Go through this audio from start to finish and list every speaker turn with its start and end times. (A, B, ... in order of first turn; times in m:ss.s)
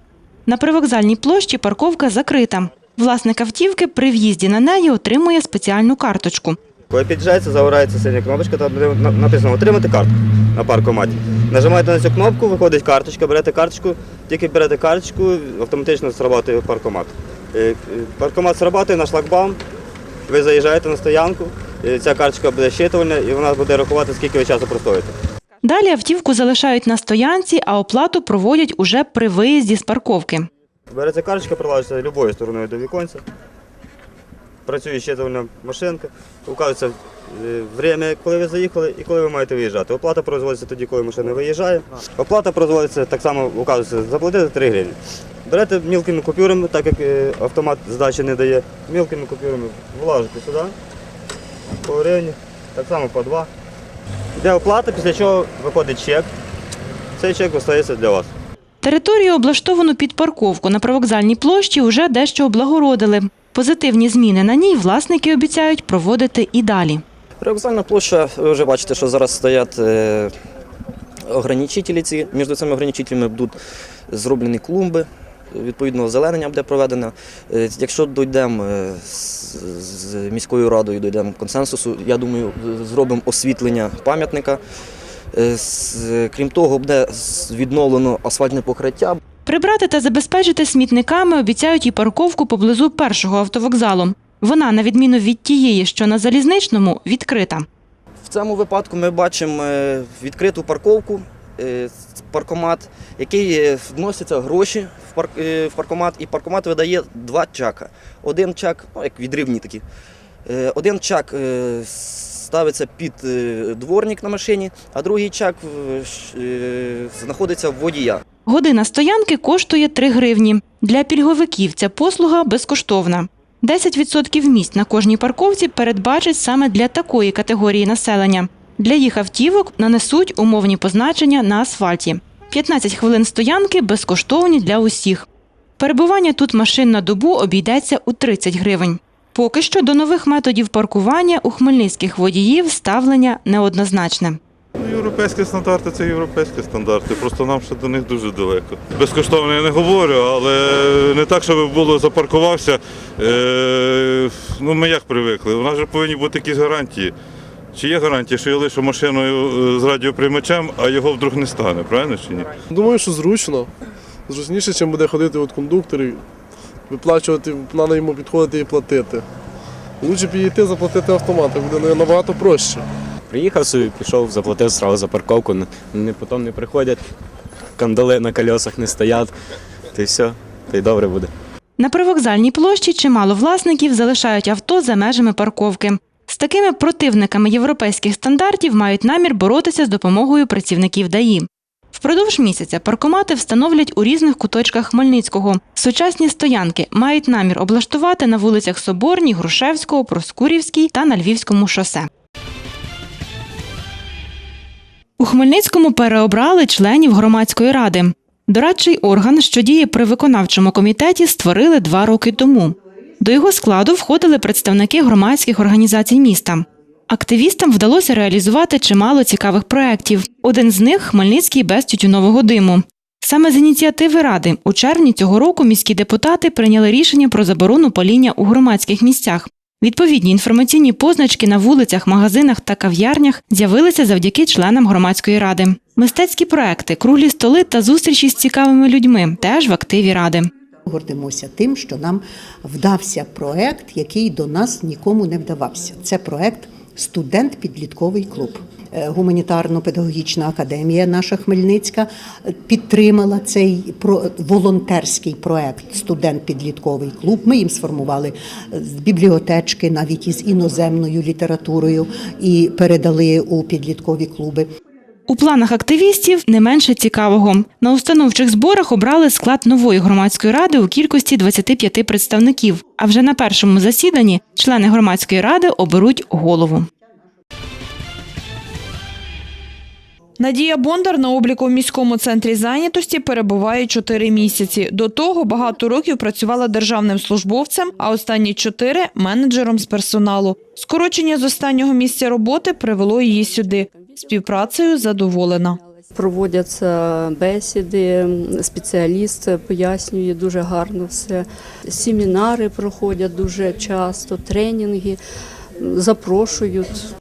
0:00.5-0:06.6 A
0:06.9-0:19.6 B
0:20.3-0:25.1 B
0:25.6-0:30.5 A
0:30.9-0:33.2 B
0:34.6-0:50.7 B
0:51.8-0:53.5 B
0:54.4-0:56.3 B
0:57.2-0:58.3 B
0:58.8-1:07.0 A
1:07.4-1:10.3 C
1:11.2-1:13.6 C
1:14.1-1:24.6 C
1:25.3-1:29.2 C
1:29.4-1:37.6 A
1:38.2-1:49.8 C
1:50.4-1:58.2 C
1:58.4-2:15.2 A
2:15.8-2:24.4 A
2:24.8-2:37.1 D
2:37.7-2:42.5 D
2:42.7-2:43.7 E
2:44.3-2:46.2 E
2:46.9-2:49.2 E
2:50.0-2:52.8 E
2:53.3-2:57.0 F
2:57.8-2:59.3 F
2:59.9-3:01.3 F
3:01.8-3:22.1 A
3:25.2-4:00.5 A
4:00.9-4:24.7 G
4:25.3-4:36.9 A
4:40.4-4:55.8 H
4:56.1-5:05.2 I
5:05.8-5:07.0 I